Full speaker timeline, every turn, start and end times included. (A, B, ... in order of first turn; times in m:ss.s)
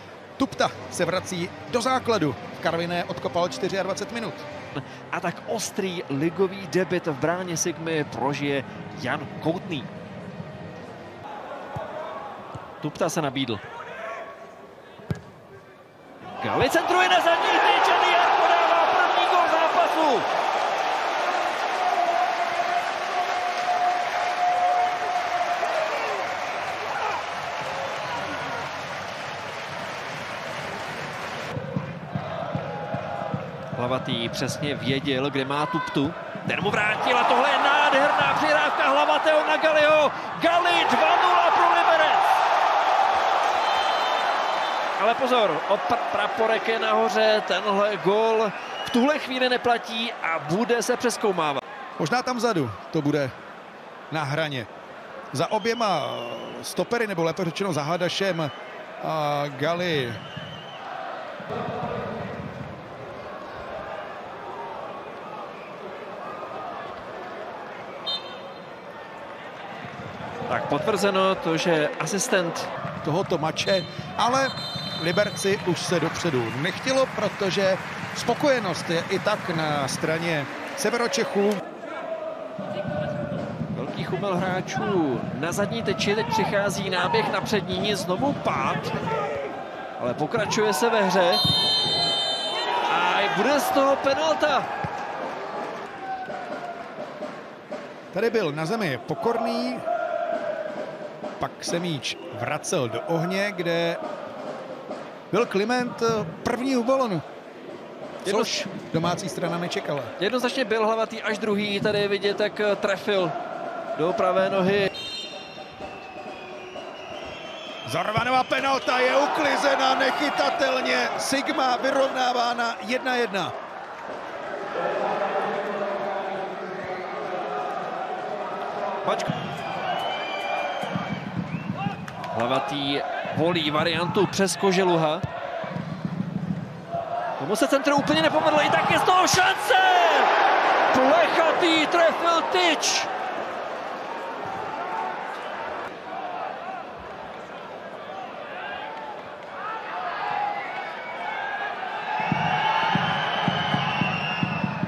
0:00.4-0:04.4 A
0:04.7-0:09.9 B
0:12.8-0:13.6 B
0:16.4-0:20.3 B
0:33.7-0:42.3 B
0:45.0-0:51.6 B
0:52.0-0:53.3 A
0:54.1-0:54.7 A
0:55.3-1:00.2 A
1:10.5-1:12.7 B
1:13.0-1:21.6 A
1:23.7-1:28.9 B
1:30.0-1:31.4 B
1:32.9-1:34.7 B
1:38.1-1:39.8 A
1:41.4-1:44.0 A
1:45.3-1:47.2 A
1:48.2-1:48.7 B
1:48.2-1:50.1 A
1:50.2-1:53.4 B
1:54.0-1:54.9 B
1:57.9-2:03.5 A
2:09.0-2:09.3 B
2:12.3-2:15.2 B
2:17.4-2:20.3 B
2:20.9-2:23.1 B